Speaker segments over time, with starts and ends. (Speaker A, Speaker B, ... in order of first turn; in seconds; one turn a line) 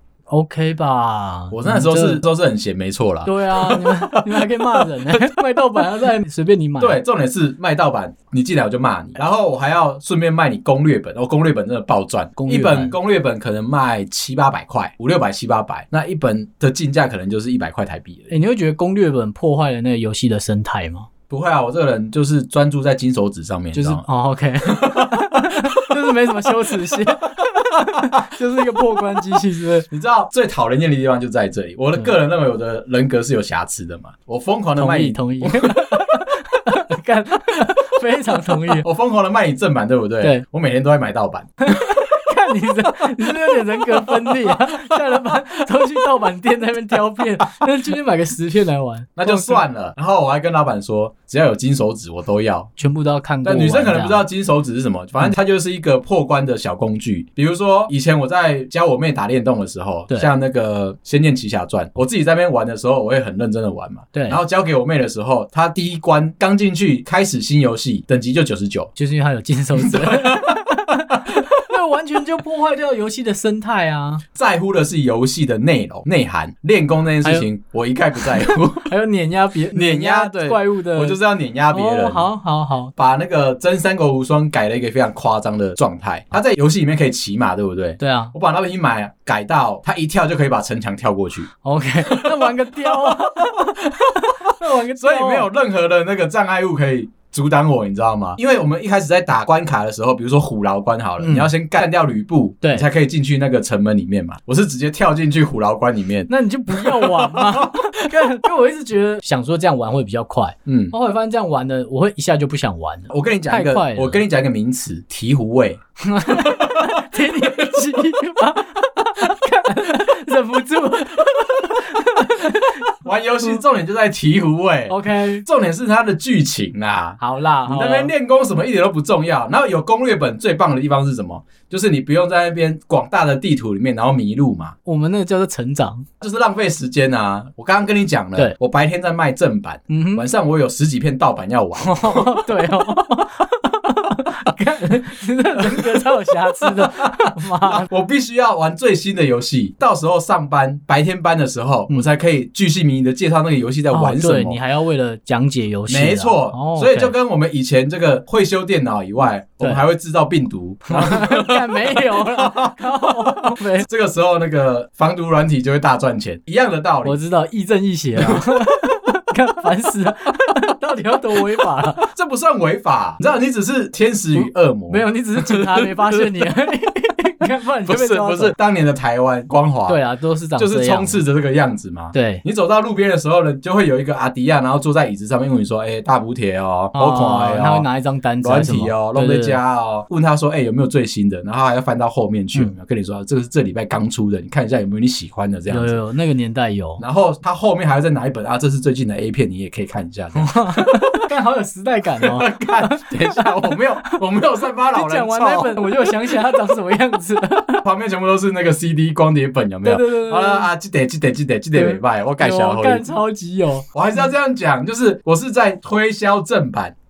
Speaker A: 0.3-2.2
Speaker B: 1.5-5.4
Speaker A: 3.2-7.0
Speaker B: 6.8-18.3
Speaker A: 12.4-13.0
Speaker A: 18.3-21.1
Speaker B: 21.3-24.0
Speaker A: 23.7-29.9
Speaker B: 24.6-27.3
Speaker B: 28.0-36.3
Speaker A: 34.8-38.9
Speaker B: 37.9-42.3
Speaker A: 41.7-49.6
Speaker B: 43.0-44.7
Speaker B: 49.2-52.7
Speaker A: 52.8-54.2
Speaker B: 53.4-68.9
Speaker A: 64.1-64.4
Speaker A: 69.0-74.2
Speaker B: 69.8-71.5
Speaker B: 74.3-78.9
Speaker A: 78.4-81.2
Speaker B: 79.7-82.3
Speaker A: 81.7-82.9
Speaker B: 83.0-91.5
Speaker A: 88.0-88.3
Speaker A: 91.6-95.5
Speaker B: 92.1-108.1
Speaker A: 101.2-101.5
Speaker A: 102.6-102.9
Speaker A: 106.3-114.2
Speaker B: 110.7-111.0
Speaker B: 113.1-118.2
Speaker A: 116.0-122.9
Speaker B: 123.0-134.8
Speaker A: 124.9-125.5
Speaker A: 127.2-128.1
Speaker A: 134.8-136.1
Speaker B: 136.2-142.7
Speaker A: 139.9-140.3
Speaker A: 141.8-147.9
Speaker B: 145.6-154.6
Speaker A: 153.9-157.1
Speaker B: 155.9-167.2
Speaker A: 160.9-163.9
Speaker A: 167.0-172.1
Speaker B: 168.2-168.7
Speaker B: 172.0-176.5
Speaker A: 174.9-178.6
Speaker B: 177.9-180.0
Speaker A: 179.9-181.2
Speaker B: 180.6-187.9
Speaker A: 182.1-182.4
Speaker A: 186.9-189.6
Speaker B: 188.4-196.0
Speaker A: 195.7-197.0
Speaker B: 197.0-201.3
Speaker A: 200.4-204.2
Speaker B: 202.2-206.8
Speaker A: 204.9-207.8
Speaker B: 207.8-213.1
Speaker A: 209.8-210.7
Speaker A: 211.8-213.9
Speaker B: 213.9-216.9